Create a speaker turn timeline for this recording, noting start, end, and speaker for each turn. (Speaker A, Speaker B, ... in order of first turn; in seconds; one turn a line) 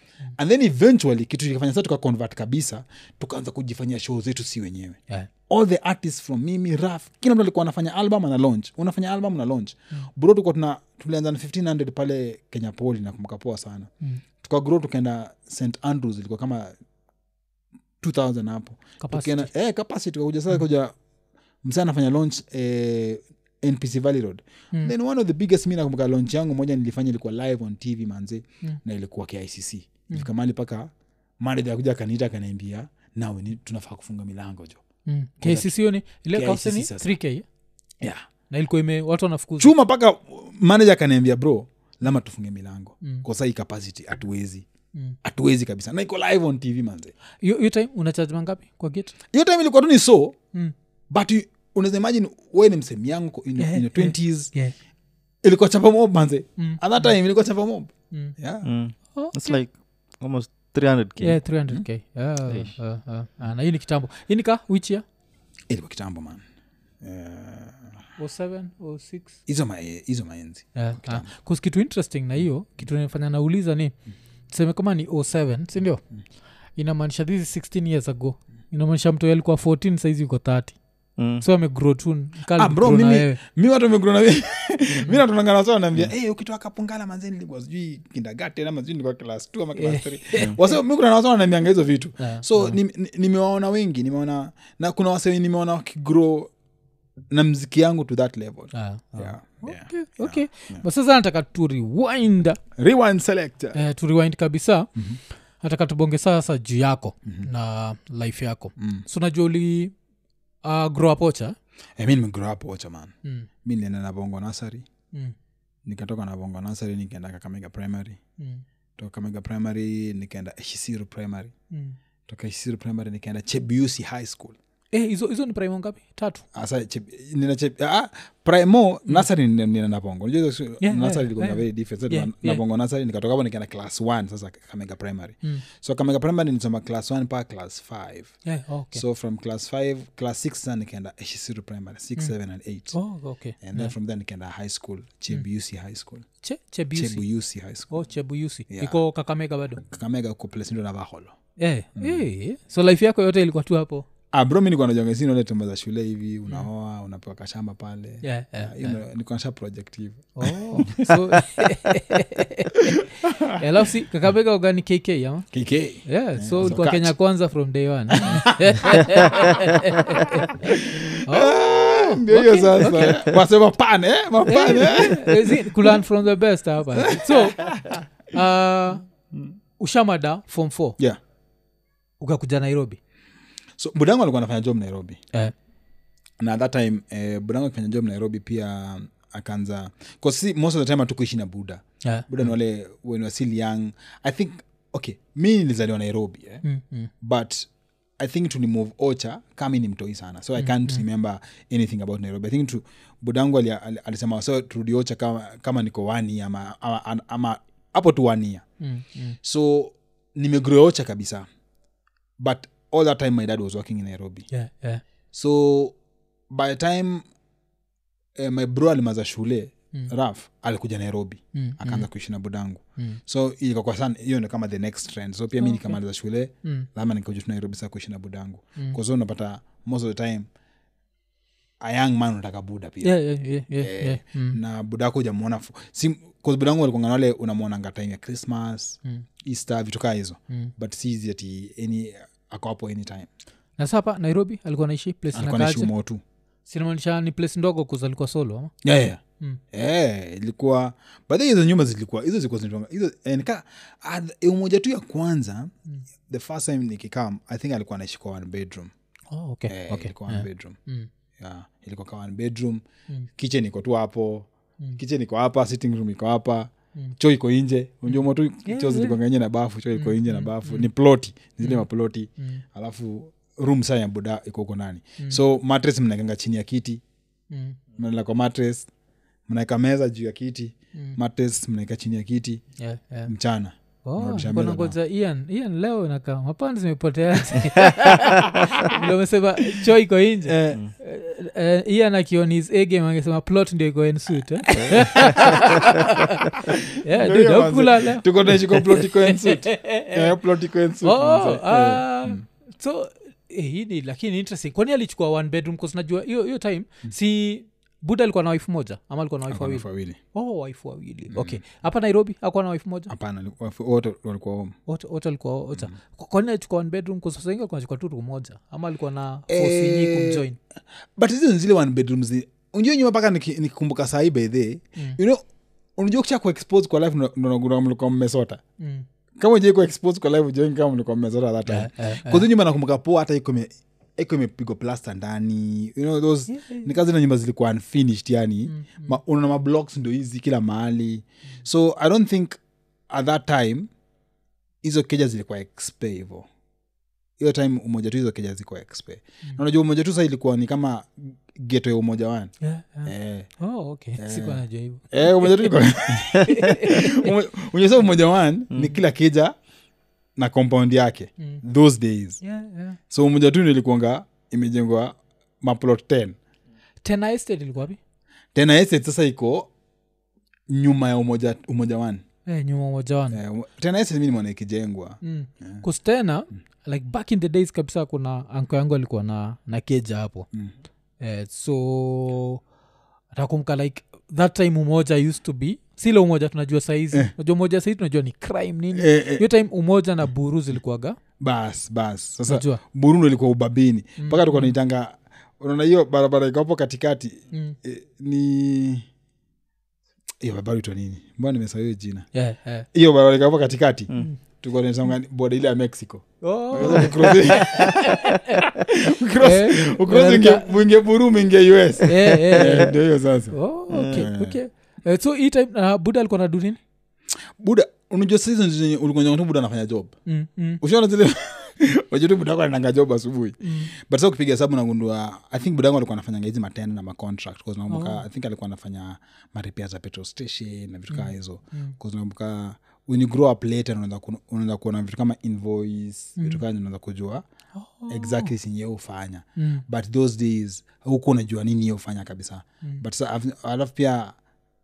Speaker A: 0.4-13.9
Speaker A: 14.4-16.7
Speaker A: 18.0-20.9
Speaker B: 19.0-19.5
Speaker A: 21.6-34.8
Speaker B: 35.0-37.4
Speaker A: 35.4-35.7
Speaker A: 36.3-37.1
Speaker A: 38.0-38.2
Speaker B: 38.5-39.7
Speaker A: 39.6-44.6
Speaker A: 45.2-47.1
Speaker B: 47.4-49.1
Speaker A: 49.3-50.4
Speaker A: 51.1-54.5
Speaker B: 53.6-54.7
Speaker A: 55.4-58.7
Speaker C: 58.6-61.4
Speaker B: 59.1-59.6
Speaker B: 61.2-65.0
Speaker A: 65.7-66.4
Speaker A: 67.0-67.9
Speaker B: 68.2-69.4
Speaker A: 69.5-71.3
Speaker B: 70.7-73.9
Speaker B: 74.5-76.0
Speaker B: 76.7-80.8
Speaker C: 81.2-81.4
Speaker B: 81.4-83.4
Speaker A: 82.5-96.5
Speaker B: 89.7-90.7
Speaker B: 92.2-92.8
Speaker A: 97.3-100.8
Speaker B: 98.7-102.6
Speaker A: 102.8-103.8
Speaker B: 103.7-104.9
Speaker B: 105.6-109.9
Speaker A: 108.8-109.0
Speaker B: 110.6-111.5
Speaker A: 112.0-113.1
Speaker A: 113.6-114.8
Speaker A: 115.8-118.2
Speaker B: 118.4-118.6
Speaker A: 119.0-121.5
Speaker B: 121.7-122.0
Speaker A: 122.3-124.5
Speaker B: 124.9-126.5
Speaker A: 126.5-138.3
Speaker B: 130.8-132.6
Speaker B: 138.4-139.0
Speaker A: 138.9-143.0
Speaker B: 142.9-143.9
Speaker A: 143.6-146.2
Speaker B: 146.4-147.2
Speaker A: 146.9-147.9
Speaker B: 147.9-149.8
Speaker A: 148.7-149.0
Speaker A: 149.8-151.4
Speaker B: 151.6-154.1
Speaker A: 152.0-152.2
Speaker A: 154.3-161.7
Speaker B: 158.2-159.0
Speaker B: 160.3-165.5
Speaker A: 162.8-163.6
Speaker A: 165.5-167.1
Speaker B: 166.0-173.2
Speaker A: 168.1-169.8
Speaker A: 170.6-176.0
Speaker B: 174.4-177.8
Speaker A: 176.9-178.0
Speaker B: 178.3-179.0
Speaker B: 179.8-181.0
Speaker B: 182.2-183.0
Speaker A: 183.8-185.2
Speaker A: 186.4-196.6
Speaker B: 192.0-192.3
Speaker B: 196.6-197.1
Speaker A: 197.2-197.7
Speaker A: 198.2-208.6
Speaker B: 200.6-201.0
Speaker B: 208.8-209.4
Speaker A: 209.4-211.5
Speaker A: 212.4-214.5
Speaker B: 214.5-215.0
Speaker A: 215.3-215.9
Speaker A: 216.5-217.2
Speaker A: 218.3-230.5
Speaker B: 221.5-222.1
Speaker B: 225.6-226.0
Speaker A: 231.8-233.2
Speaker B: 233.0-234.6
Speaker A: 233.8-243.3
Speaker B: 243.8-245.9
Speaker A: 245.3-246.2
Speaker B: 246.7-248.7
Speaker A: 248.8-249.2
Speaker A: 249.7-255.7
Speaker A: 256.3-258.9
Speaker B: 259.3-261.1
Speaker A: 259.7-260.8
Speaker A: 261.4-262.8
Speaker A: 263.4-277.0
Speaker B: 268.1-269.1
Speaker B: 269.9-270.9
Speaker B: 272.4-272.6
Speaker B: 277.5-277.8
Speaker A: 278.0-278.9
Speaker A: 279.5-282.6
Speaker B: 282.8-283.3
Speaker A: 283.3-284.9
Speaker B: 284.0-300.3
Speaker A: 290.5-290.8
Speaker A: 294.6-295.9
Speaker A: 296.6-302.4
Speaker B: 301.0-313.1
Speaker A: 309.5-310.2
Speaker A: 311.3-311.6
Speaker A: 313.1-314.8
Speaker B: 314.9-320.6
Speaker A: 319.5-320.4
Speaker A: 321.1-325.4
Speaker A: 326.0-328.6
Speaker B: 328.8-329.1
Speaker A: 329.4-343.9
Speaker B: 331.7-332.4
Speaker B: 336.5-336.9
Speaker B: 338.6-339.2
Speaker A: 344.8-346.5
Speaker A: 347.4-352.5
Speaker B: 352.6-355.7
Speaker A: 353.0-353.5
Speaker A: 354.2-359.5
Speaker B: 356.3-357.3
Speaker A: 360.4-362.4
Speaker B: 362.4-363.0
Speaker A: 363.1-366.4
Speaker B: 367.0-368.0
Speaker A: 368.5-369.7
Speaker A: 370.7-372.2
Speaker B: 372.4-373.4
Speaker A: 373.3-375.8
Speaker B: 375.2-380.5
Speaker B: 381.2-382.6
Speaker B: 383.3-391.2
Speaker A: 388.9-389.4
Speaker A: 391.4-399.0
Speaker B: 392.5-392.8
Speaker B: 394.2-394.7
Speaker B: 397.5-397.8
Speaker A: 400.4-402.3
Speaker B: 402.3-402.9
Speaker A: 402.9-413.6
Speaker B: 406.4-408.6
Speaker B: 409.4-410.7
Speaker B: 412.0-412.9
Speaker B: 413.5-416.8
Speaker C: 413.9-414.2
Speaker A: 414.1-414.6
Speaker A: 417.6-420.1
Speaker B: 420.2-420.8
Speaker A: 420.8-437.4
Speaker B: 423.6-423.9
Speaker B: 427.9-428.2
Speaker B: 431.1-431.9
Speaker B: 436.4-436.6
Speaker B: 437.7-438.5
Speaker A: 438.1-444.4
Speaker B: 439.6-439.8